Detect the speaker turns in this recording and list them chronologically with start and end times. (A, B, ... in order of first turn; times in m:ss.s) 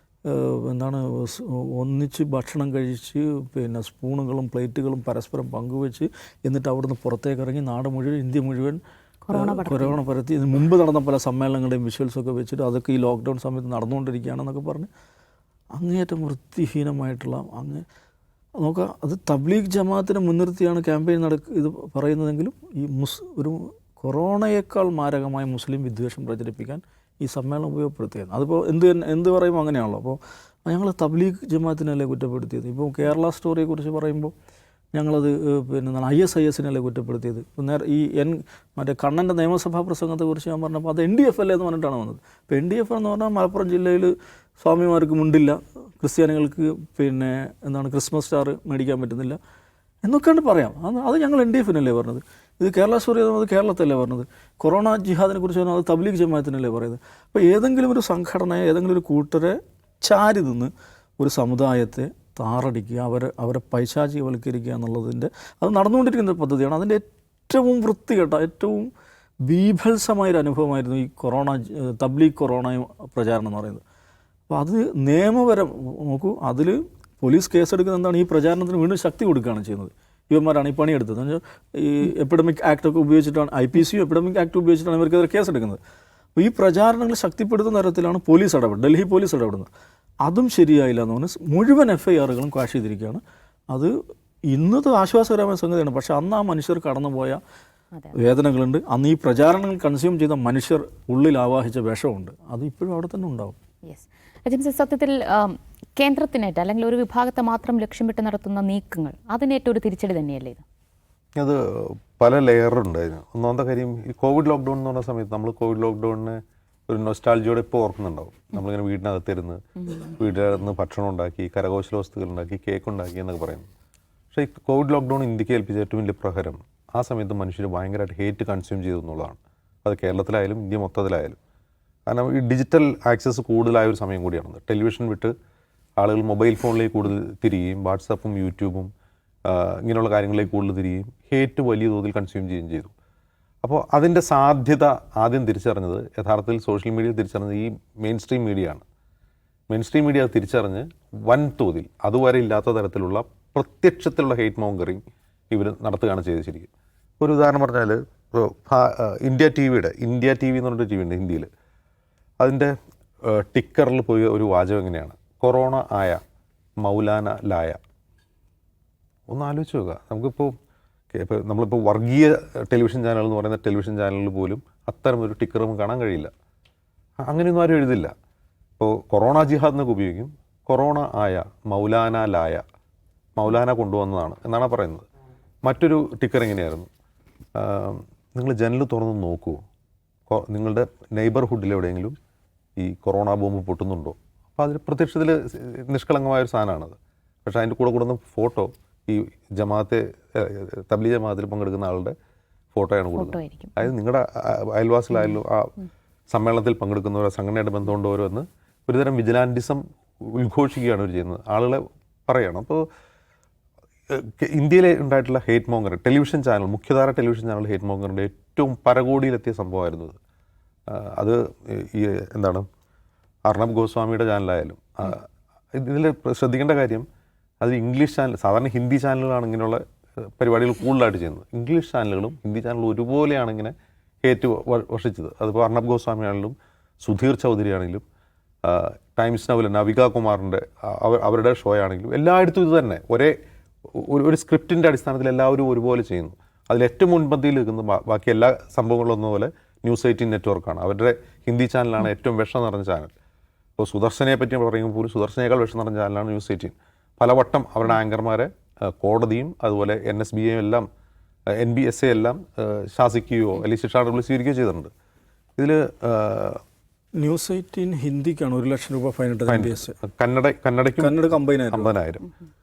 0:00.2-0:08.8 A
0:09.2-0:10.0 B
0:09.3-0:14.9 A
0:15.7-0:17.8 A
0:18.6-0:34.3 A
0:34.9-0:49.4 A
0:50.0-1:08.9 A
1:09.4-1:13.8 A
1:14.5-1:25.8 A
1:26.4-1:29.7 A
1:30.2-1:33.9 A
1:34.5-1:37.4 A
1:38.1-1:43.6 A
1:43.9-1:50.6 B
1:51.4-1:59.6 C
2:00.1-2:03.7 C
2:04.3-2:11.4 C
2:12.1-2:15.3 C
2:16.0-2:18.9 C
2:19.4-2:22.9 C
2:23.6-2:28.8 C
2:29.7-2:36.7 C
2:37.2-2:41.5 C
2:42.4-2:46.2 C
2:46.8-2:47.8 C
2:49.3-2:50.5 C
2:51.1-2:56.3 C
2:57.2-2:58.1 C
2:58.8-3:02.6 C
3:03.4-3:05.0 C
3:05.6-3:06.9 C
3:07.6-3:09.6 C
3:10.3-3:12.2 C
3:12.8-3:22.1 C
3:22.7-3:25.7 C
3:23.1-3:23.9 B
3:26.3-3:32.8 C
3:34.1-3:40.2 C
3:40.9-3:42.6 C
3:43.5-3:47.0 C
3:47.6-3:49.8 C
3:50.4-3:58.0 C
3:58.6-4:03.3 C
4:03.9-4:13.1 C
4:13.8-4:20.8 C
4:21.6-4:24.9 C
4:25.6-4:26.6 C
4:27.2-4:29.9 A
4:29.5-4:31.2 C
4:31.0-4:31.9 A
4:31.7-4:32.3 C